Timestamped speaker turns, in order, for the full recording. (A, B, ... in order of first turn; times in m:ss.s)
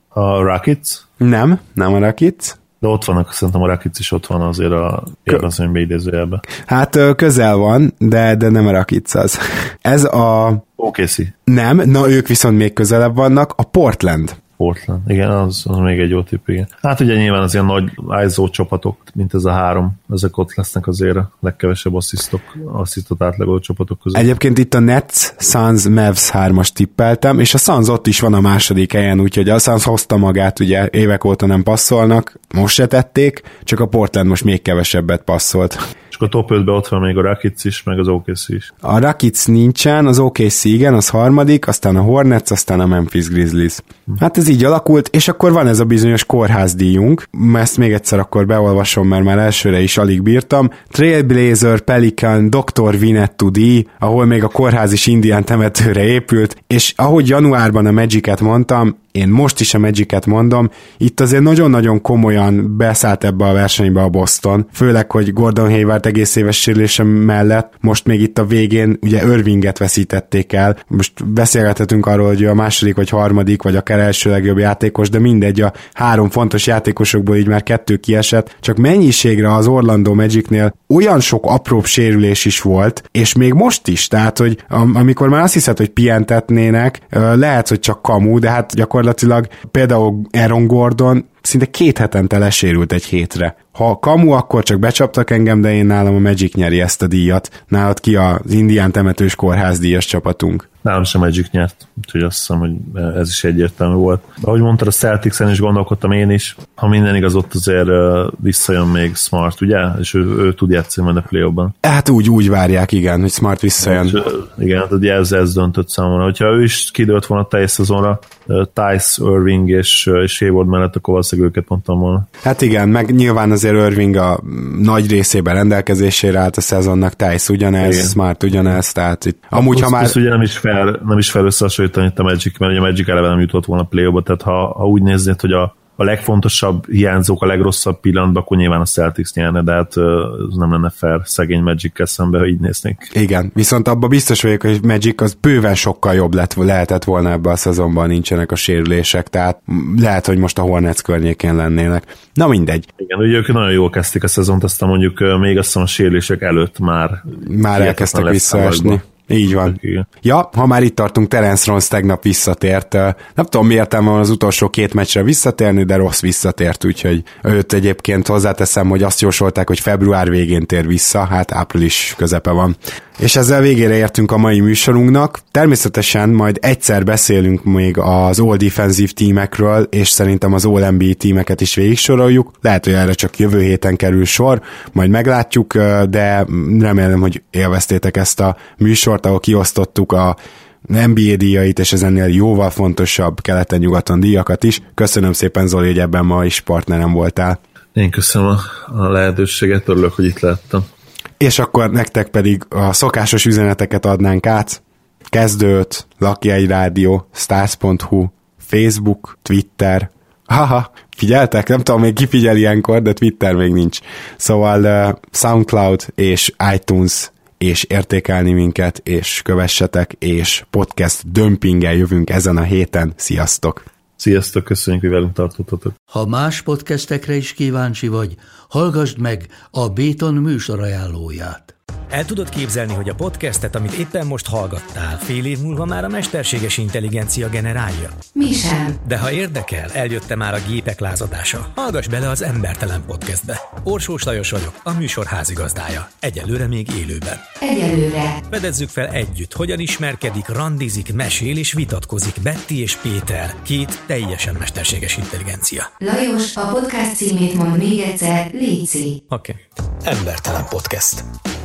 0:00.1-0:01.0 A
0:01.2-0:02.6 B
0:02.8-0:06.4 A
0:06.6-0:10.6 B
0:10.8-0:11.3 A
0:11.4-0:14.4 B
0:14.6-0:24.3 A
0:24.1-0:35.8 B
0:36.1-0:38.7 A
0:38.8-1:40.6 B
1:40.8-1:51.7 A
1:51.8-1:54.2 B
1:53.8-2:02.3 A
2:02.4-2:10.1 B
2:07.8-2:08.7 A
2:09.5-2:23.1 A
2:23.1-2:32.9 B
2:33.0-2:40.1 A
2:37.4-3:17.6 B
3:18.0-3:20.9 A
3:21.4-3:24.8 B
3:25.3-3:43.8 B
3:44.2-3:45.9 A
3:46.1-3:51.7 C
3:52.1-3:58.2 D
3:58.3-3:58.9 E
3:59.0-4:07.5 D
4:07.6-4:08.4 E
4:08.5-4:15.9 D
4:16.0-4:19.2 E
4:19.3-4:21.2 D